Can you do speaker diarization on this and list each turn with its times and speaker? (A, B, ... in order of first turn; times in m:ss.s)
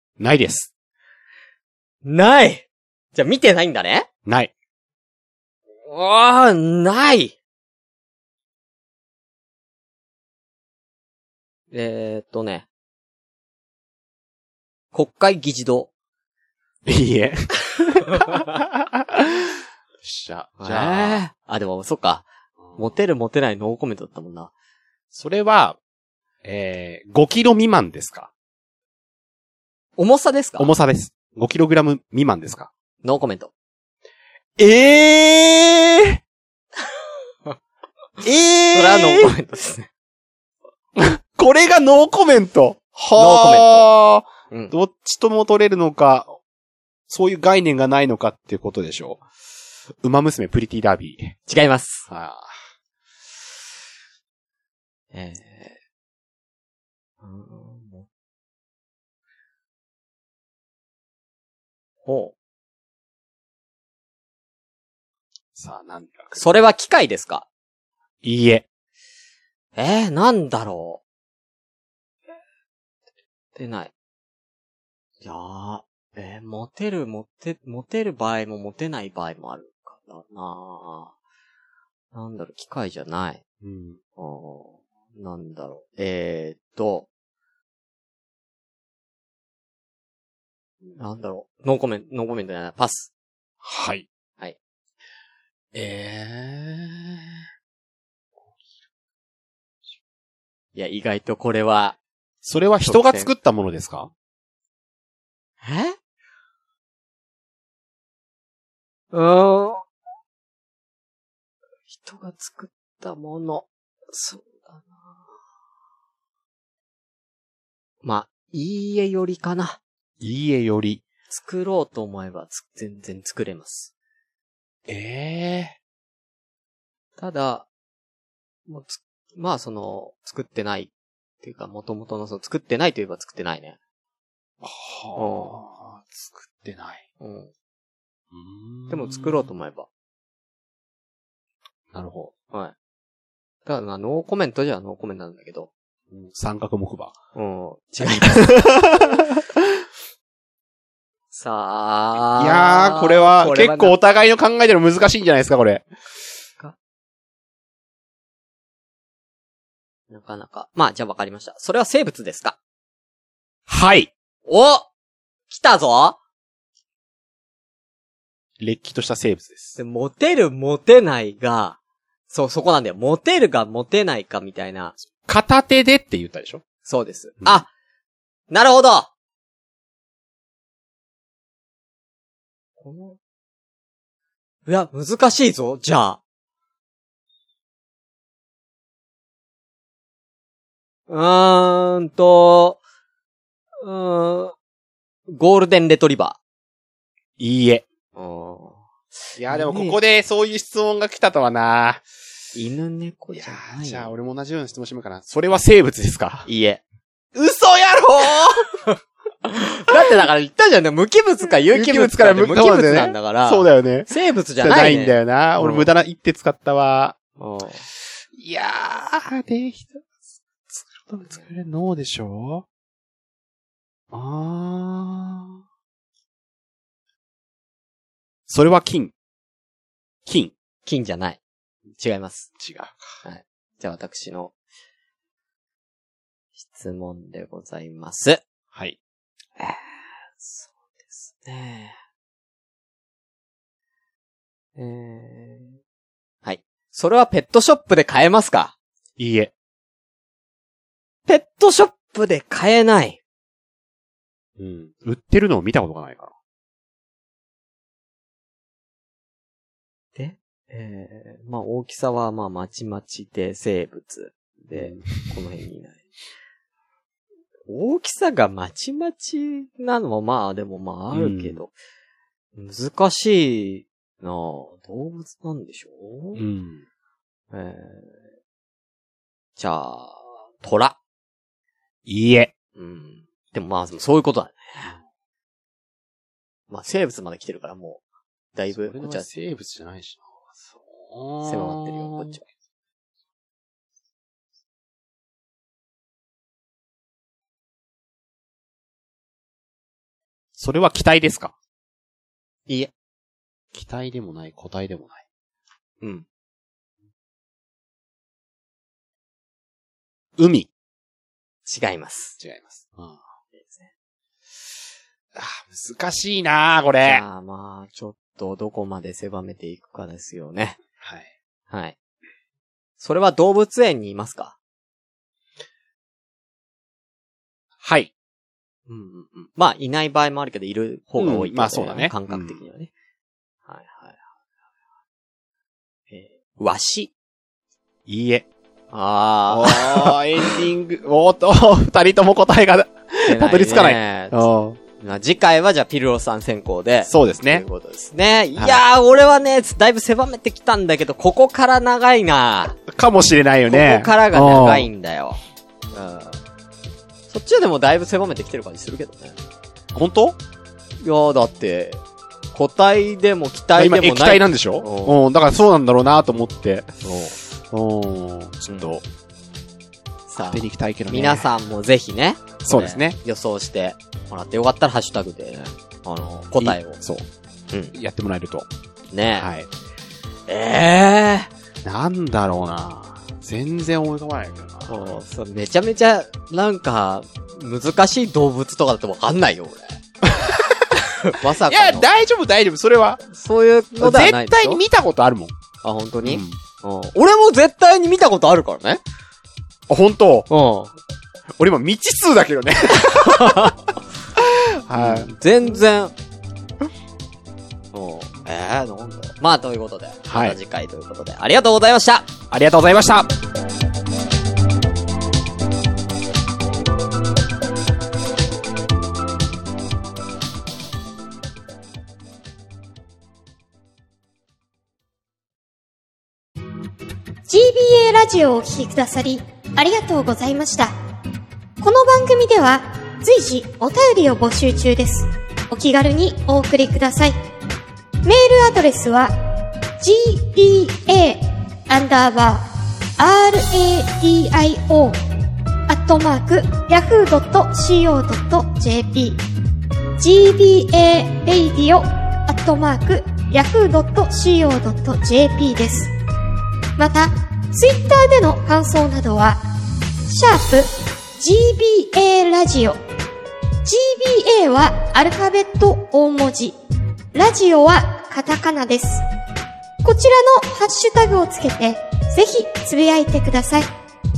0:00.2-0:00.7 A
0:02.0-0:04.1 B
0:04.3-0:04.5 A
0:05.9-0:07.4 B
0:11.7-0:12.7 B
0:14.9-0:15.9 B
0:16.8-0:21.2 A
0:20.6-0:24.5 B
0:25.1-0:25.8 A
0:26.4-0:28.3 A
0:30.0-0:30.7 B
0:30.6-0:32.7 A
0:33.0-0:33.5 B
0:34.6-0:36.2 A
0:38.2-0:39.3 A
0:38.7-0:39.9 B
0:41.0-0:46.4 A
0:43.2-0:43.9 B
0:47.1-0:49.2 A
0:50.0-0:51.4 A
0:51.5-0:52.1 B
0:52.1-0:52.5 A
0:55.1-0:55.8 B
0:57.2-0:58.1 B
1:02.0-1:02.4 B
1:05.6-1:06.6 A
1:06.4-1:07.5 B
1:08.2-1:08.7 A
1:09.8-1:11.0 B
1:13.6-1:13.9 B
1:15.2-1:21.1 B
1:22.1-1:23.4 B
1:23.6-1:24.0 A
1:24.2-1:27.1 B
1:30.9-1:33.1 B
1:33.6-1:34.1 A
1:35.7-1:37.3 A
1:40.8-1:42.0 B
1:42.4-1:44.1 A
1:42.8-1:43.3 B
1:45.6-1:46.0 B
1:49.1-1:49.8 B
1:51.9-1:55.2 B
1:58.0-1:59.8 B
2:00.2-2:01.0 A
2:01.3-2:03.9 B
2:04.9-2:05.8 A
2:07.2-2:07.7 B
2:08.7-2:13.8 B
2:14.6-2:17.0 A
2:15.2-2:15.6 B
2:17.2-2:17.5 B
2:18.3-2:19.5 A
2:18.9-2:19.9 B
2:21.9-2:22.3 A
2:23.6-2:25.7 B
2:26.1-2:27.2 A
2:27.4-2:28.7 B
2:28.4-2:29.4 A
2:31.3-2:34.0 B
2:32.4-2:35.8 A
2:40.1-2:42.6 B
2:43.7-2:44.1 A
2:44.5-2:44.9 B
2:45.5-2:46.2 B
2:48.6-2:49.8 A
2:49.8-2:51.8 B
2:52.3-2:55.0 B
2:55.3-2:56.6 A
2:56.9-2:57.7 B
2:58.5-2:59.1 B
3:02.8-3:03.2 B
3:04.7-3:06.2 B
3:11.1-3:12.8 B
3:13.8-3:14.5 B
3:15.3-3:16.4 B
3:17.4-3:17.9 A
3:18.2-3:18.8 B
3:19.4-3:22.0 A
3:19.5-3:20.0 B
3:22.5-3:24.1 B
3:23.4-3:26.5 A
3:26.5-3:26.8 B
3:27.4-3:28.7 A
3:29.5-3:35.9 B
3:31.7-3:37.2 A
3:37.4-3:37.8 B
3:38.3-3:40.0 A
3:40.7-3:42.7 A
3:44.1-3:45.6 A
3:48.5-3:49.1 A
3:50.3-3:50.5 A
3:50.8-3:51.4 B
3:52.0-3:52.5 B
3:52.6-3:53.1 A
3:53.2-3:54.6 B
3:56.6-3:58.4 B
3:59.6-4:02.0 B
4:04.8-4:05.8 B
4:06.4-4:08.8 B
4:09.2-4:09.5 A
4:11.3-4:13.2 B
4:14.6-4:16.3 A
4:20.2-4:26.0 B
4:24.7-4:25.3 A
4:27.7-4:31.7 B
4:31.1-4:31.6 A
4:32.6-4:36.4 B
4:36.4-4:36.8 A
4:37.5-4:38.2 B
4:39.6-4:41.0 B
4:42.1-4:42.5 A
4:42.8-4:45.0 B
4:46.7-4:48.0 B
4:48.6-4:49.3 B
4:48.8-4:52.4 A
4:51.4-4:52.4 B
5:00.6-5:01.5 A
5:03.7-5:05.2 A
5:06.0-5:06.3 B
5:10.4-5:10.7 A
5:11.6-5:12.4 B
5:12.4-5:13.2 A
5:13.6-5:13.9 B
5:15.4-5:17.2 A
5:17.0-5:20.8 B
5:21.0-5:21.3 A
5:21.7-5:22.0 B
5:23.0-5:24.6 B
5:27.8-5:28.1 A
5:28.9-5:32.9 B
5:31.2-5:32.6 A
5:33.7-5:34.2 B
5:36.1-5:37.1 B
5:38.1-5:38.5 A
5:38.9-5:40.6 B
5:39.5-5:44.8 A
5:43.3-5:44.4 B
5:45.0-5:52.8 B
5:47.1-5:47.6 A
5:48.6-5:48.8 A
5:52.9-5:54.9 A
5:53.7-5:55.4 B
5:55.9-5:56.4 B
5:57.3-5:59.4 B
6:00.0-6:00.4 A
6:01.0-6:02.0 B
6:02.5-6:05.2 B
6:03.8-6:09.0 A
6:07.0-6:07.3 B
6:10.3-6:17.0 B
6:10.4-6:11.5 A
6:12.6-6:13.2 A
6:16.6-6:17.3 A
6:17.9-6:18.7 A
6:19.1-6:19.5 B
6:19.3-6:19.7 A
6:20.5-6:21.5 B
6:21.8-6:25.2 A
6:24.9-6:30.0 B
6:30.4-6:30.7 A
6:31.0-6:32.1 B
6:31.7-6:33.2 A
6:33.3-6:34.8 B
6:34.0-6:35.5 A
6:35.8-6:39.0 B
6:36.2-6:36.6 A
6:39.9-6:40.5 A
6:40.5-6:40.9 B
6:41.6-6:43.7 A
6:43.2-6:43.8 B
6:44.4-6:45.3 A
6:45.0-6:46.1 B
6:47.9-6:52.3 B
6:50.3-6:50.6 A
6:52.5-6:53.3 A
7:07.5-7:10.9 C
7:11.8-7:17.4 C
7:18.2-7:19.3 C
7:20.0-7:22.6 C
7:23.2-7:25.2 C
7:25.9-7:29.4 C
7:30.2-7:36.1 C
7:37.0-7:39.6 C
7:40.3-7:43.0 C
7:43.8-7:46.8 C
7:47.3-7:49.2 C
7:50.0-7:53.9 C